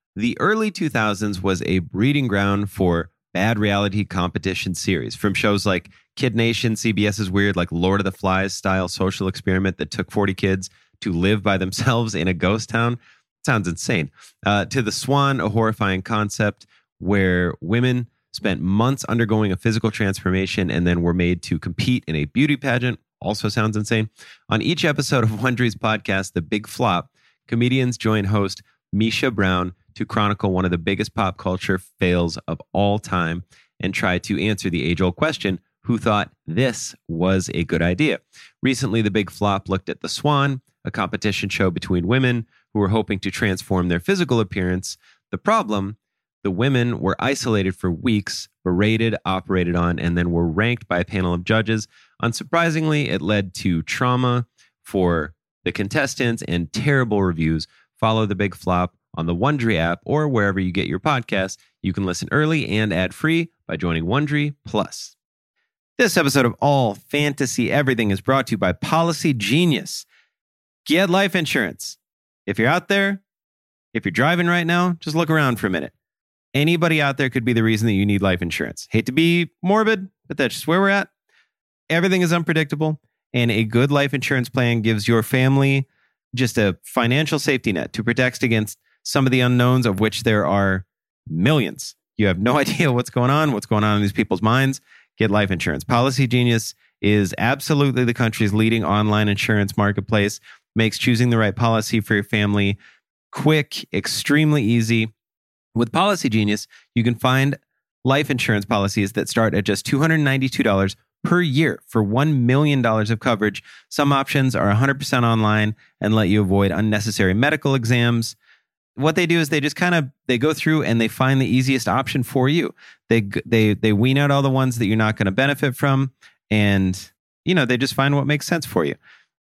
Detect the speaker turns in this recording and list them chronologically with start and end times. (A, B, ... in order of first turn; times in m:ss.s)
0:00.2-1:05.1 A
1:06.0-1:10.0 A
1:10.8-1:13.2 A
1:13.9-1:15.9 A
1:16.5-1:21.1 A
1:21.9-1:42.8 A
1:43.3-1:45.1 A
1:45.7-1:58.4 A
1:59.0-2:09.0 A